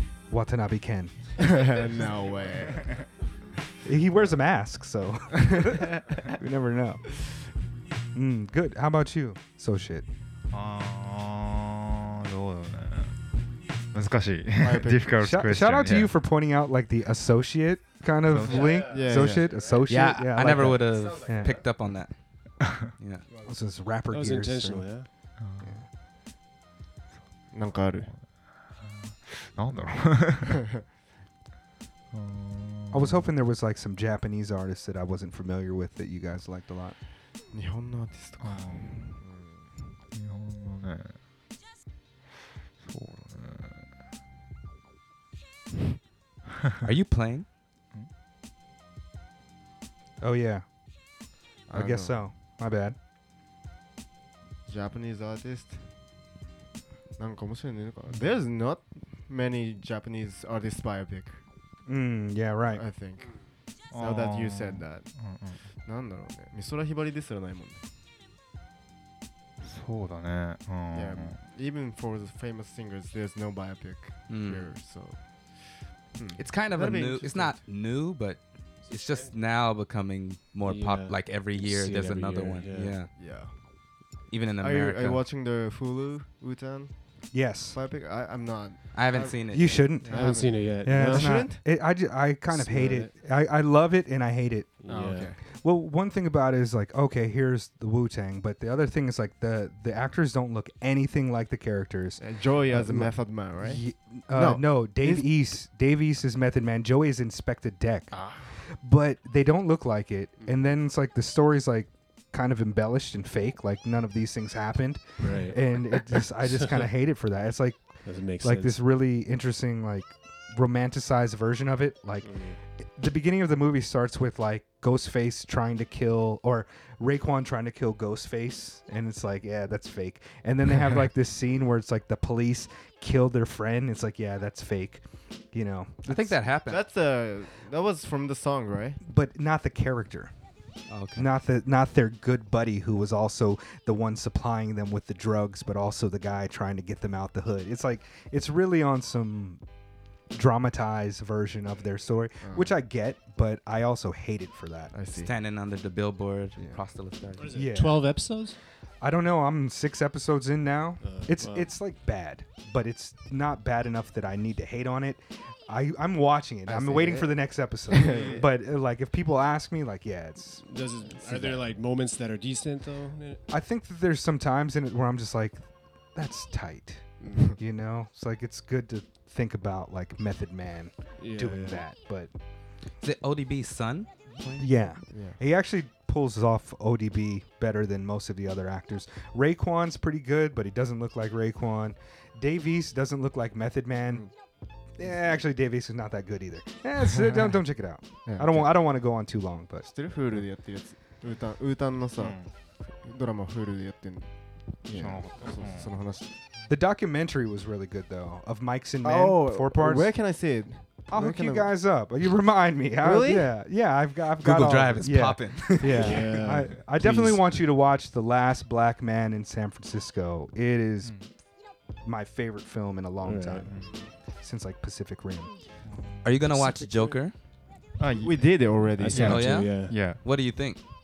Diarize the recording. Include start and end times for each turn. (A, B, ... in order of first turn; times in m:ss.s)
0:00.3-0:01.3 A
0:01.4-0:03.0 B
0:03.8-0:07.0 A
0:05.4-0:05.7 B
0:08.1-0:10.1 A
0:10.5-0:16.1 C
0:14.6-0:15.2 B
0:15.2-0:21.6 A
0:18.2-0:18.8 C
0:18.5-0:20.4 B
0:19.9-0:23.3 D
0:23.4-0:25.0 A
0:24.1-0:25.1 E
0:25.4-0:25.7 C
0:25.6-0:25.9 A
0:27.5-0:28.2 B
0:28.1-0:30.6 C
0:30.4-0:30.7 B
0:32.1-0:33.3 C
0:32.9-0:37.0 A
0:37.4-0:40.0 B
0:38.4-0:39.2 C
0:40.1-0:41.2 C
0:42.8-0:43.9 C
0:46.8-0:47.5 D
0:50.2-0:53.0 A
0:51.7-0:52.3 B
0:54.6-0:55.9 B
0:57.2-1:01.4 B
1:01.8-1:02.8 A
1:02.7-1:07.8 B
1:03.9-1:05.7 C
1:09.6-1:11.4 C
1:10.9-1:17.6 B
1:14.3-1:14.8 D
1:16.4-1:23.6 D
1:18.9-1:19.3 E
1:20.6-1:23.0 E
1:23.1-1:31.7 B
1:24.3-1:25.2 D
1:27.3-1:27.8 A
1:28.9-1:30.0 D
1:29.5-1:34.8 A
1:30.0-1:31.4 E
1:32.5-1:33.1 E
1:34.8-1:35.3 E
1:34.8-1:35.4 B
1:35.4-2:16.5 A
1:42.2-1:45.6 B
1:48.1-1:48.5 B
1:55.2-1:55.8 E
1:58.0-1:58.8 E
2:02.2-2:02.6 E
2:16.0-2:16.8 D
2:16.6-2:19.0 B
2:19.0-2:20.3 A
2:20.9-2:21.3 D
2:21.1-2:29.6 A
2:30.3-2:34.9 A
2:32.4-2:32.8 B
2:34.9-2:35.3 B
2:35.2-2:37.6 D
2:37.4-2:38.6 E
2:37.5-2:38.5 A
2:39.0-2:51.5 A
2:41.0-2:41.8 E
2:46.6-2:48.5 B
2:48.1-2:48.4 E
2:50.6-2:53.4 E
2:51.2-2:51.6 B
2:53.5-3:02.3 A
2:57.2-2:57.6 B
3:01.2-3:01.9 E
3:03.0-3:04.6 D
3:04.6-3:20.6 A
3:05.0-3:05.4 B
3:14.1-3:14.4 B
3:18.2-3:18.9 B
3:19.8-3:26.5 B
3:22.2-3:22.5 C
3:24.9-3:25.9 C
3:26.7-3:41.4 A
3:29.0-3:31.8 B
3:33.0-3:33.5 B
3:34.4-3:36.2 D
3:35.8-3:37.6 E
3:41.0-3:41.3 C
3:42.0-3:45.5 A
3:43.2-3:43.7 E
3:43.7-3:43.9 C
3:43.7-3:44.1 B
3:45.8-3:46.3 C
3:46.2-3:47.4 D
3:48.0-3:50.2 C
3:48.0-3:49.4 B
3:49.0-3:50.0 E
3:49.2-3:50.8 D